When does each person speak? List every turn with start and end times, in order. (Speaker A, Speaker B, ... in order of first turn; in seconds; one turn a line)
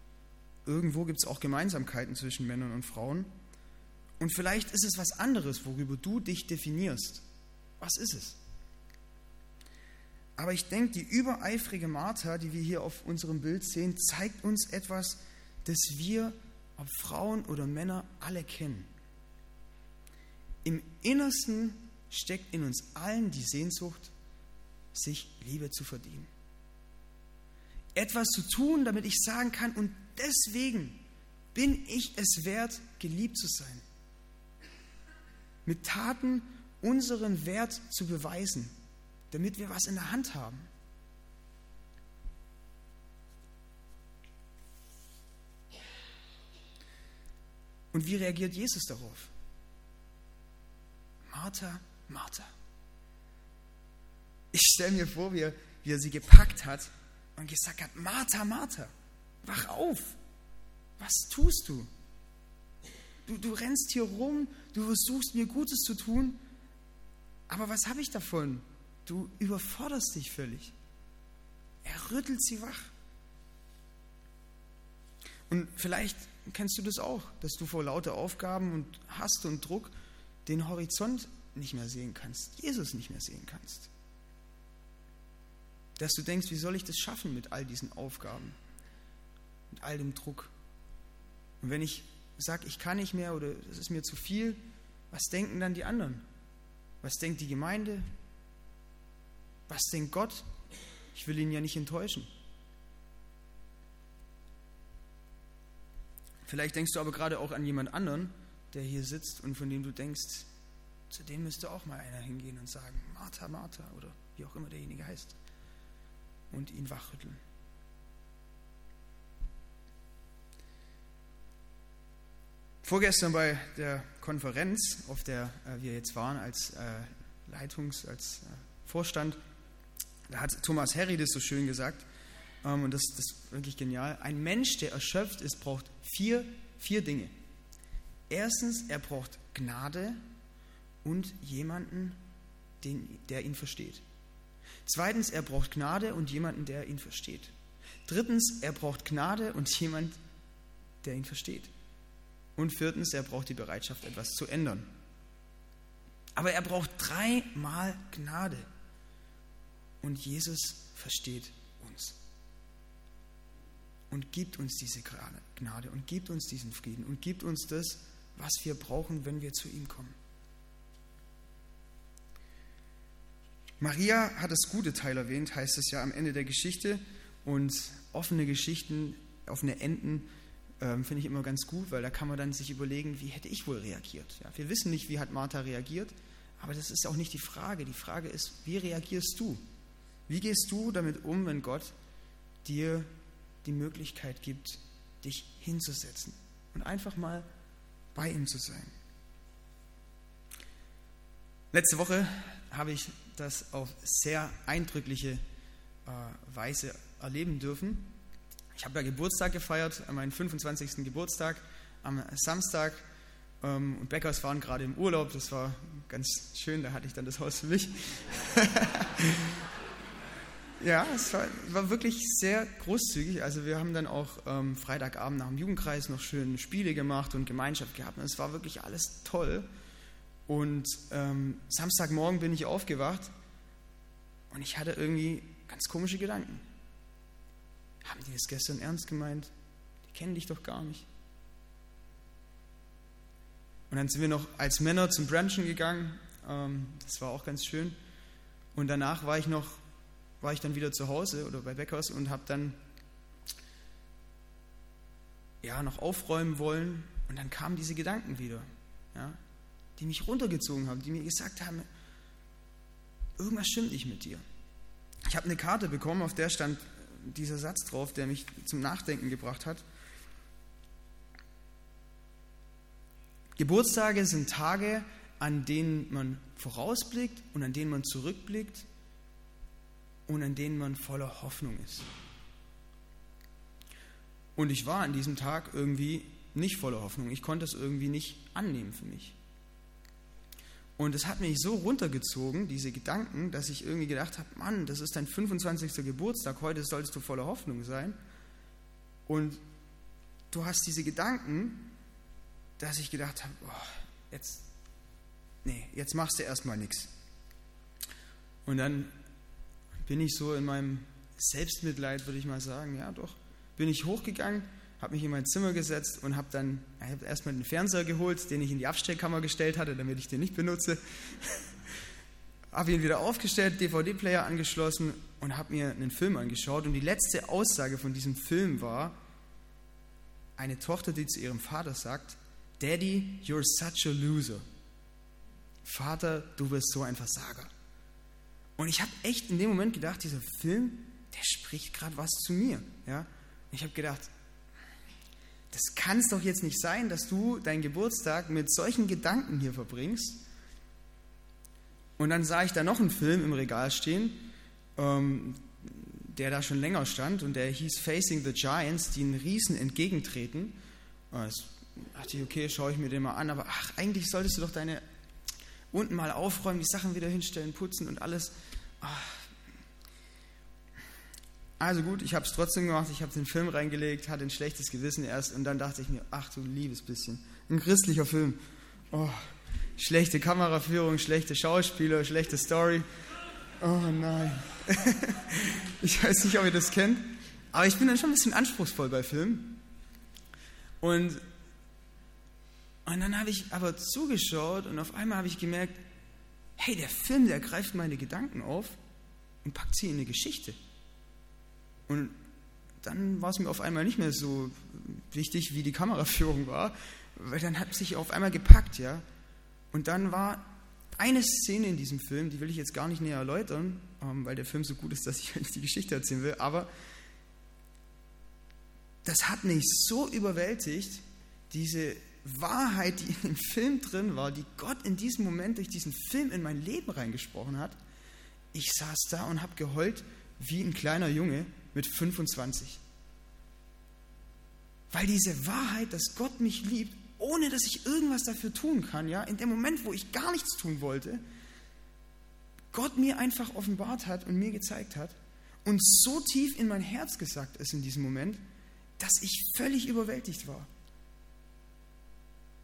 Speaker A: 0.7-3.3
Speaker A: 4.2-7.2
Speaker A: 7.8-8.4
Speaker A: 10.4-18.9
Speaker A: 20.6-24.1
Speaker A: 24.9-26.3
Speaker A: 27.9-31.0
Speaker A: 31.5-33.8
Speaker A: 35.6-38.7
Speaker A: 39.3-40.7
Speaker A: 47.9-49.3
Speaker A: 51.3-52.5
Speaker A: 54.5-58.9
Speaker A: 59.4-60.2
Speaker A: 61.0-61.9
Speaker A: 63.3-66.4
Speaker A: 67.5-70.7
Speaker A: 71.8-72.9
Speaker A: 75.5-79.9
Speaker A: 80.5-83.9
Speaker A: 86.0-88.6
Speaker A: 89.7-90.5
Speaker A: 91.6-94.6
Speaker A: 95.1-96.2
Speaker A: 97.0-98.1
Speaker A: 99.7-100.5
Speaker A: 101.1-102.3
Speaker A: 106.5-110.5
Speaker A: 111.1-115.4
Speaker A: 116.5-117.4
Speaker A: 122.8-129.4
Speaker A: 130.3-132.1
Speaker A: 132.6-137.3
Speaker A: 138.3-140.2
Speaker A: 141.0-142.2
Speaker A: 142.8-144.0
Speaker A: 144.8-147.5
Speaker A: 148.1-150.2
Speaker A: 151.0-151.7
Speaker A: 152.6-154.9
Speaker A: 156.4-158.7
Speaker A: 160.0-162.2
Speaker A: 164.1-170.2
Speaker A: 173.8-180.3
Speaker A: 180.8-189.6
Speaker A: 190.3-191.9
Speaker A: 192.6-193.1
Speaker A: 193.6-197.5
Speaker A: 198.1-198.9
Speaker A: 201.7-205.4
Speaker A: 206.1-208.1
Speaker A: 208.7-213.1
Speaker A: 213.6-219.6
Speaker A: 220.8-229.7
Speaker A: 230.5-233.3
Speaker A: 234.5-236.6
Speaker A: 238.0-239.5
Speaker A: 240.1-241.1
Speaker A: 243.9-248.0
Speaker A: 248.8-249.8
Speaker A: 250.4-252.8
Speaker A: 255.6-259.4
Speaker A: 260.0-261.9
Speaker A: 263.4-264.4
Speaker A: 265.3-269.8
Speaker A: 273.6-278.9
Speaker A: 280.3-282.1
Speaker A: 284.6-289.4
Speaker A: 291.0-298.2
Speaker A: 299.3-299.6
Speaker A: 300.5-301.9
Speaker A: 302.8-304.6
Speaker A: 305.6-307.1
Speaker A: 308.6-309.1
Speaker A: 310.1-321.7
Speaker A: 322.7-329.2
Speaker A: 330.6-334.6
Speaker A: 335.8-337.7
Speaker A: 338.8-344.3
Speaker A: 345.7-350.4
Speaker A: 352.2-354.4
Speaker A: 355.0-360.8
Speaker A: 361.3-365.0
Speaker A: 365.9-369.5
Speaker A: 371.8-378.6
Speaker A: 379.1-379.4
Speaker A: 380.0-383.1
Speaker A: 383.8-389.8
Speaker A: 391.0-391.4
Speaker A: 393.1-396.0
Speaker A: 396.8-399.0
Speaker A: 399.6-400.8
Speaker A: 402.1-402.4
Speaker A: 403.0-409.2
Speaker A: 409.9-416.9
Speaker A: 419.2-428.0
Speaker A: 428.7-433.0
Speaker A: 435.1-441.4
Speaker A: 442.9-448.6
Speaker A: 449.2-450.9